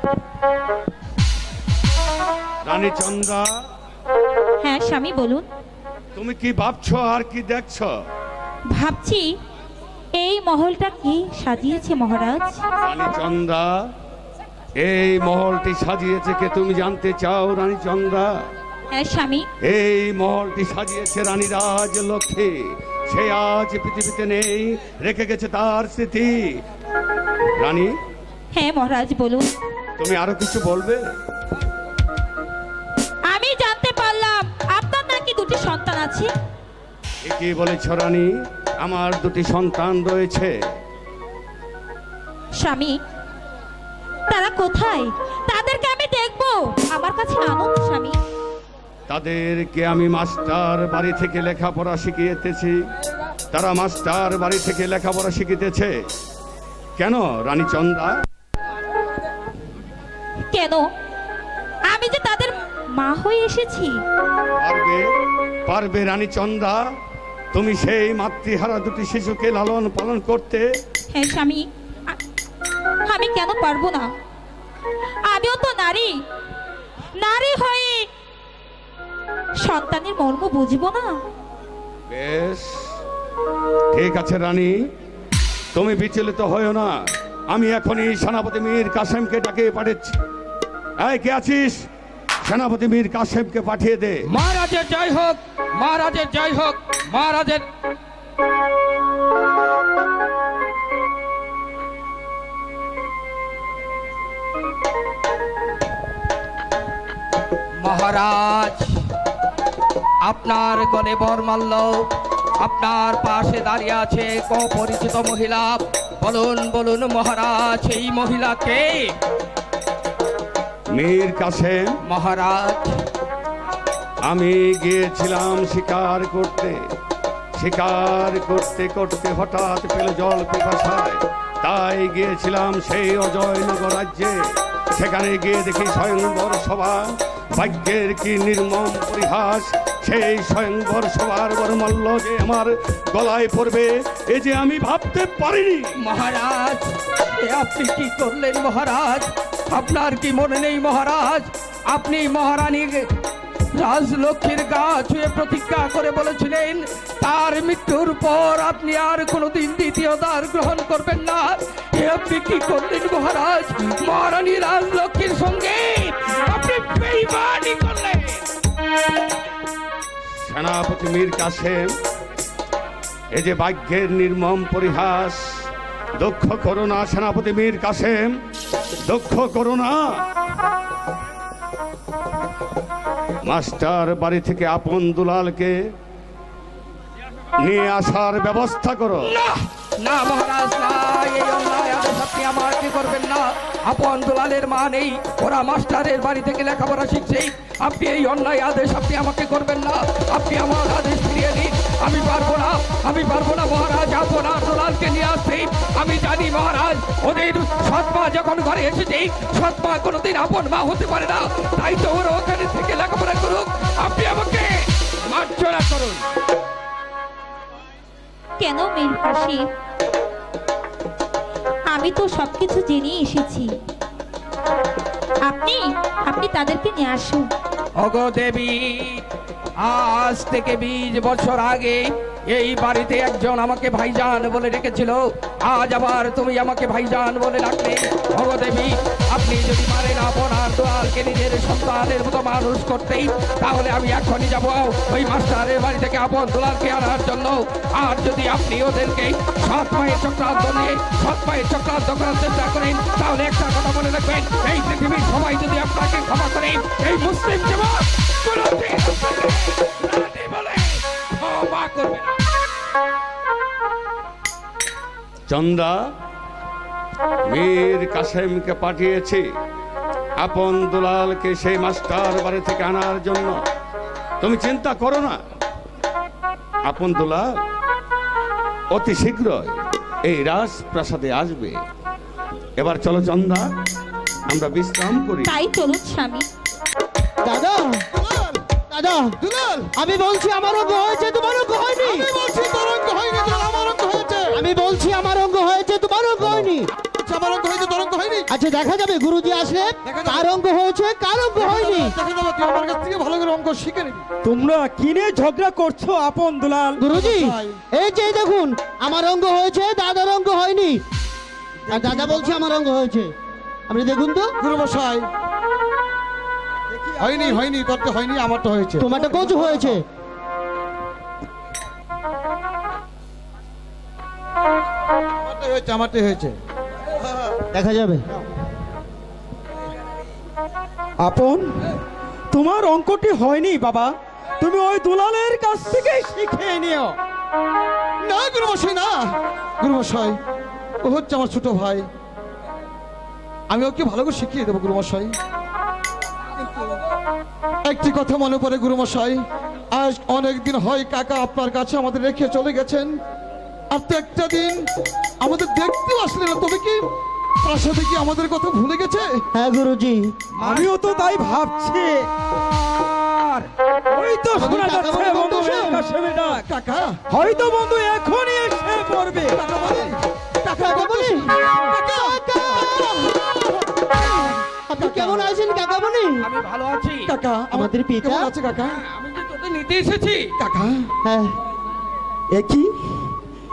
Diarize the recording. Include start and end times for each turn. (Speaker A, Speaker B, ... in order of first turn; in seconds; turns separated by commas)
Speaker A: 2.6-3.5, Speaker B: 4.6-5.5, Speaker A: 6.2-7.9, Speaker B: 8.7-9.3, Speaker B: 10.1-12.7, Speaker A: 12.8-13.7, Speaker A: 14.8-18.3, Speaker B: 18.9-19.5, Speaker A: 19.6-22.5, Speaker A: 23.1-26.5, Speaker A: 27.6-27.9, Speaker B: 28.5-29.5, Speaker A: 30.0-31.1, Speaker B: 33.3-36.3, Speaker A: 37.2-40.5, Speaker B: 42.6-43.0, Speaker B: 44.3-48.1, Speaker A: 49.1-52.8, Speaker A: 53.5-55.9, Speaker A: 57.0-58.2, Speaker B: 60.5-60.9, Speaker B: 61.9-64.0, Speaker A: 64.6-65.1, Speaker A: 65.7-66.8, Speaker A: 67.5-70.7, Speaker B: 71.1-72.2, Speaker B: 73.0-74.1, Speaker B: 75.2-76.2, Speaker B: 77.2-78.1, Speaker B: 79.6-81.2, Speaker A: 82.1-82.8, Speaker A: 83.9-84.8, Speaker A: 85.7-86.9, Speaker A: 87.5-90.2, Speaker A: 91.0-91.8, Speaker A: 92.4-94.2, Speaker C: 94.3-97.6, Speaker C: 107.8-108.9, Speaker C: 110.2-112.0, Speaker C: 112.6-119.0, Speaker A: 120.9-121.9, Speaker C: 122.0-122.9, Speaker A: 124.2-126.8, Speaker A: 127.6-134.4, Speaker A: 134.9-145.9, Speaker C: 146.0-146.8, Speaker C: 147.4-153.0, Speaker C: 153.8-168.4, Speaker A: 170.4-171.9, Speaker A: 173.3-175.7, Speaker A: 176.2-178.4, Speaker A: 179.0-180.2, Speaker A: 183.4-185.8, Speaker A: 187.6-189.3, Speaker C: 189.2-214.7, Speaker C: 215.3-216.2, Speaker B: 218.6-219.7, Speaker B: 221.9-223.7, Speaker B: 225.4-227.5, Speaker C: 228.0-229.2, Speaker C: 229.8-262.4, Speaker A: 265.5-266.0, Speaker A: 267.5-269.5, Speaker A: 270.4-273.6, Speaker A: 274.4-275.4, Speaker A: 276.9-277.5, Speaker A: 278.9-281.8, Speaker A: 282.8-283.7, Speaker A: 284.5-285.6, Speaker B: 285.4-286.5, Speaker D: 287.4-288.0, Speaker E: 288.1-288.7, Speaker D: 288.9-289.3, Speaker E: 289.4-289.9, Speaker D: 289.9-292.2, Speaker E: 292.0-294.6, Speaker D: 294.5-296.9, Speaker E: 297.1-298.5, Speaker D: 298.5-302.1, Speaker E: 300.0-300.5, Speaker E: 301.6-304.2, Speaker F: 304.4-307.1, Speaker D: 307.0-311.0, Speaker E: 307.1-307.8, Speaker D: 311.9-313.3, Speaker E: 311.9-312.6, Speaker D: 313.9-314.5, Speaker E: 314.6-315.3, Speaker F: 316.9-317.4, Speaker E: 317.2-320.0, Speaker D: 319.0-320.0, Speaker E: 325.4-326.6, Speaker D: 327.7-328.2, Speaker F: 331.2-331.7, Speaker F: 332.5-337.2, Speaker E: 338.2-339.3, Speaker E: 339.8-340.4, Speaker E: 341.0-342.1, Speaker E: 343.7-345.3, Speaker E: 347.8-349.4, Speaker E: 349.9-353.1, Speaker E: 353.9-354.8, Speaker E: 355.4-357.0, Speaker E: 357.6-359.4, Speaker D: 359.5-360.2, Speaker C: 360.6-360.9, Speaker F: 360.6-362.2, Speaker F: 363.0-366.6, Speaker D: 364.5-366.1, Speaker E: 366.4-367.2, Speaker F: 367.3-369.6, Speaker E: 369.5-373.5, Speaker D: 370.8-371.5, Speaker D: 372.1-373.3, Speaker D: 374.9-376.4, Speaker E: 375.0-375.5, Speaker C: 376.4-377.3, Speaker E: 377.3-379.0, Speaker D: 377.7-378.5, Speaker C: 378.9-380.5, Speaker E: 380.6-381.1, Speaker D: 381.2-381.6, Speaker F: 382.5-383.3